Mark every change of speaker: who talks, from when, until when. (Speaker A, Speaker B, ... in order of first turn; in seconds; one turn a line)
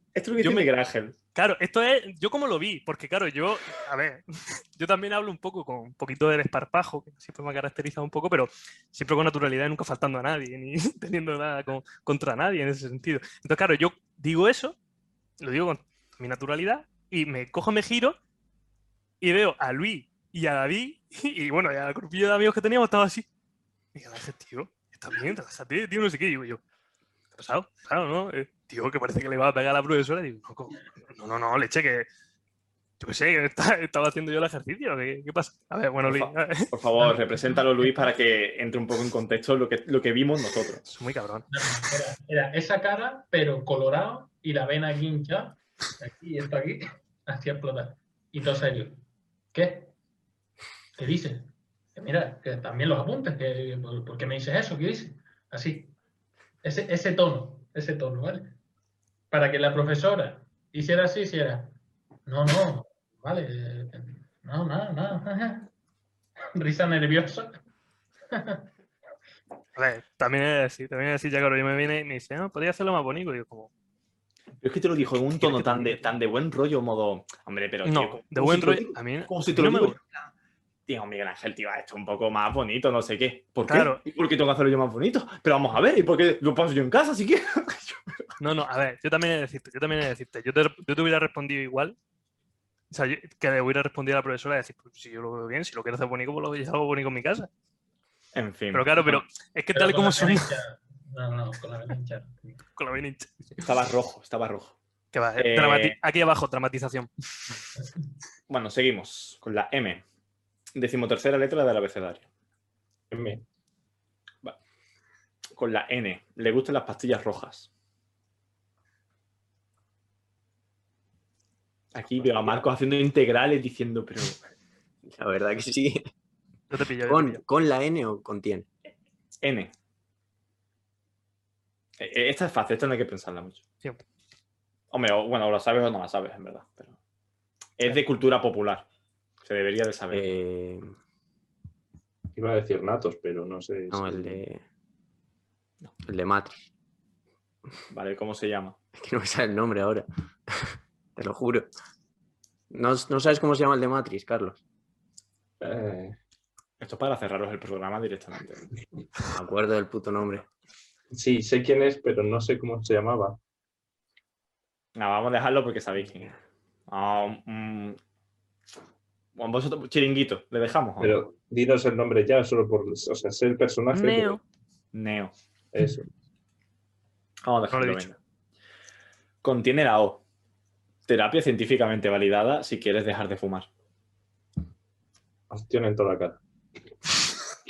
Speaker A: 0.1-1.1
Speaker B: 0.4-0.7
Speaker B: 1.3-14.8
Speaker B: 15.4-18.2
Speaker B: 19.2-23.3
Speaker B: 23.9-26.6
Speaker B: 27.3-32.1
Speaker B: 33.0-36.7
Speaker A: 36.0-40.8
Speaker C: 37.0-37.9
Speaker B: 40.8-41.5
Speaker C: 41.5-49.0
Speaker C: 49.5-49.9
Speaker C: 51.0-55.9
Speaker C: 56.6-58.5
Speaker C: 59.3-65.7
Speaker C: 66.5-67.6
Speaker C: 68.3-68.7
Speaker B: 69.8-73.7
Speaker A: 74.6-80.0
Speaker B: 75.4-75.9
Speaker B: 77.8-80.0
Speaker A: 80.9-88.3
Speaker B: 83.7-84.0
Speaker B: 88.4-92.0
Speaker B: 92.9-97.5
Speaker A: 98.3-99.2
Speaker B: 98.7-100.5
Speaker C: 99.7-102.6
Speaker B: 102.8-103.3
Speaker A: 103.6-104.8
Speaker B: 105.1-107.1
Speaker A: 105.3-106.0
Speaker A: 108.5-110.0
Speaker A: 110.7-112.3
Speaker D: 113.1-113.4
Speaker A: 115.5-117.7
Speaker A: 121.9-124.4
Speaker E: 125.1-126.0
Speaker B: 126.7-127.4
Speaker E: 127.1-128.7
Speaker A: 129.4-129.7
Speaker A: 132.0-133.6
Speaker A: 134.9-136.9
Speaker A: 137.8-138.8
Speaker A: 139.4-140.3
Speaker E: 140.1-140.9
Speaker D: 142.3-144.4
Speaker E: 143.9-144.6
Speaker E: 146.1-146.6
Speaker A: 147.9-148.8
Speaker E: 148.9-151.7
Speaker E: 152.7-154.6
Speaker D: 155.6-156.1
Speaker A: 156.8-158.7
Speaker E: 159.2-160.4
Speaker D: 161.1-163.4
Speaker A: 164.9-166.3
Speaker A: 166.9-168.0
Speaker A: 169.3-171.1
Speaker D: 171.0-174.4
Speaker B: 173.9-174.4
Speaker A: 174.9-175.3
Speaker D: 175.7-176.1
Speaker A: 177.4-178.2
Speaker B: 177.7-178.1
Speaker A: 179.4-180.2
Speaker A: 181.1-183.7
Speaker D: 185.5-186.4